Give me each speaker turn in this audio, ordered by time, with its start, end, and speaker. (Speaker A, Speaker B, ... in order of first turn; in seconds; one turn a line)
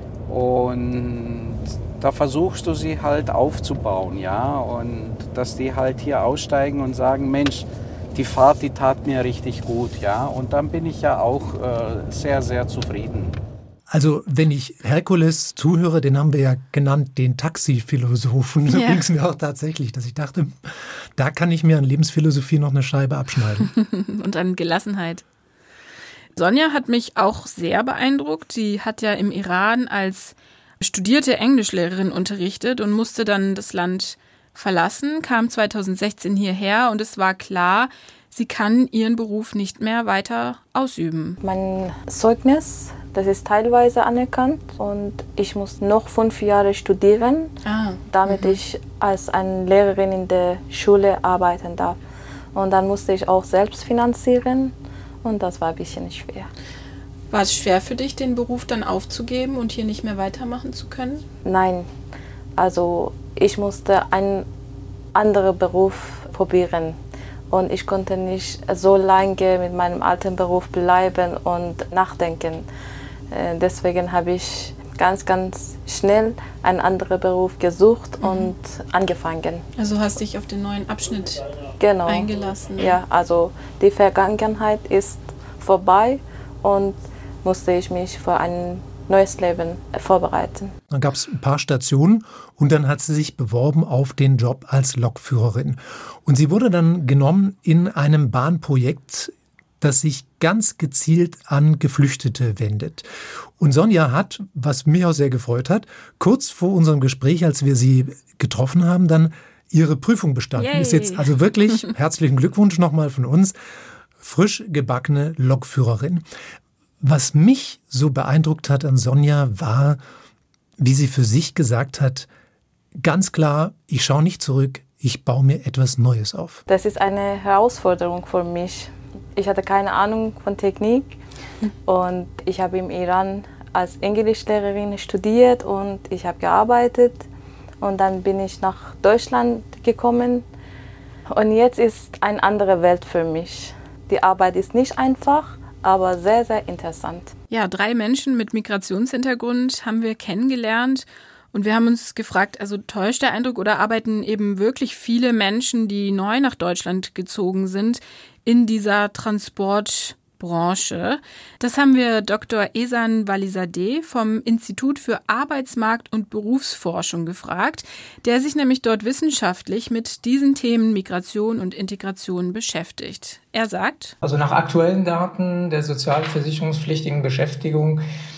Speaker A: 0.3-13.4
Speaker B: 13.9-23.7
Speaker C: 18.7-19.0
Speaker C: 23.7-25.2
Speaker C: 26.4-41.4
Speaker D: 41.4-47.5
Speaker C: 47.6-48.6
Speaker D: 48.1-52.0
Speaker D: 52.5-56.5
Speaker C: 57.3-61.2
Speaker D: 61.4-61.9
Speaker D: 62.6-64.5
Speaker D: 65.1-67.0
Speaker D: 67.5-72.7
Speaker D: 73.3-79.7
Speaker C: 78.2-78.5
Speaker C: 79.8-81.5
Speaker D: 81.8-90.7
Speaker C: 82.1-83.0
Speaker B: 90.9-113.5
Speaker C: 110.6-111.3
Speaker B: 114.2-116.2
Speaker B: 117.0-120.0
Speaker B: 120.8-122.3
Speaker B: 123.0-126.6
Speaker D: 126.7-131.2
Speaker D: 131.8-137.2
Speaker D: 137.8-140.4
Speaker D: 141.3-147.3
Speaker C: 147.5-174.2
Speaker E: 174.2-178.0